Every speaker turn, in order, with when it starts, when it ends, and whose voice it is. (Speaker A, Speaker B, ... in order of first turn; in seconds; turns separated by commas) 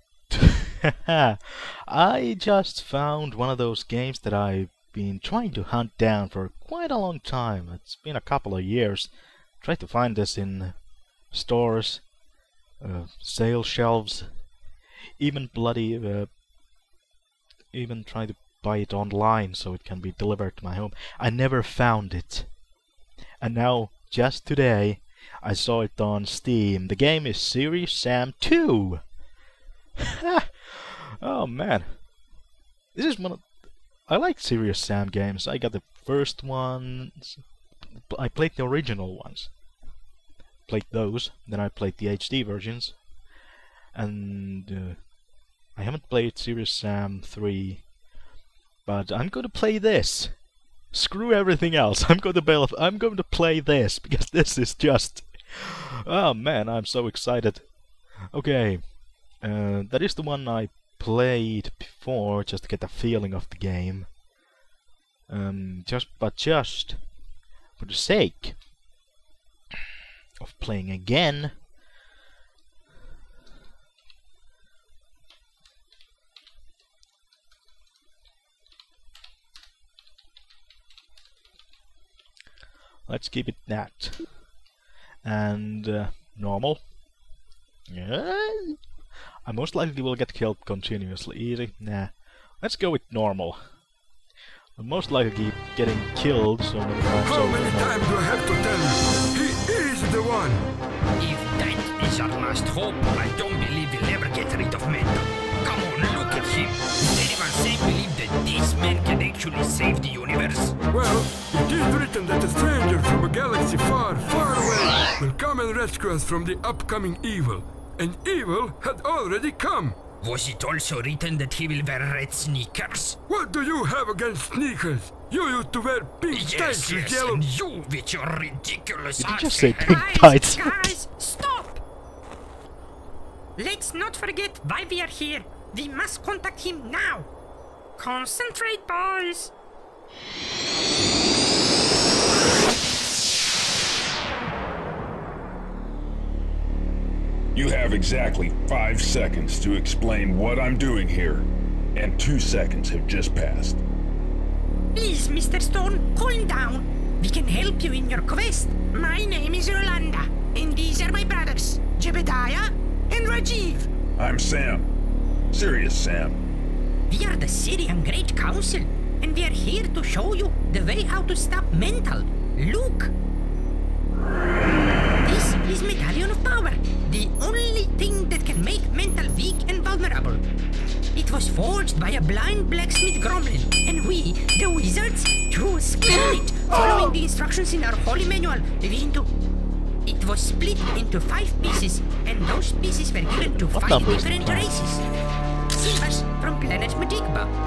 Speaker A: 0.3-12.1, Speaker A: 12.8-14.5, Speaker A: 15.2-16.4, Speaker A: 17.7-22.6, Speaker A: 23.4-29.1, Speaker A: 30.2-32.1, Speaker A: 32.9-39.6, Speaker A: 40.7-43.1, Speaker A: 43.9-45.1, Speaker A: 45.7-47.9, Speaker A: 48.8-64.2, Speaker A: 65.3-67.2, Speaker A: 67.8-68.6, Speaker A: 70.4-71.6, Speaker A: 83.1-84.4, Speaker A: 85.2-87.0, Speaker A: 87.9-93.9, Speaker A: 94.8-98.1, Speaker B: 97.2-100.7, Speaker C: 101.2-110.8, Speaker B: 110.9-120.0, Speaker C: 120.2-123.2, Speaker B: 123.3-127.5, Speaker C: 126.3-130.0, Speaker A: 129.2-130.9, Speaker D: 129.8-131.8, Speaker D: 133.6-137.3, Speaker D: 138.0-139.5, Speaker E: 147.5-153.8, Speaker D: 154.9-163.9, Speaker E: 164.2-164.9, Speaker E: 165.5-166.4, Speaker D: 167.1-173.1, Speaker D: 175.2-180.4, Speaker D: 181.2-189.3, Speaker D: 190.1-195.1, Speaker A: 193.3-194.9, Speaker D: 195.7-197.5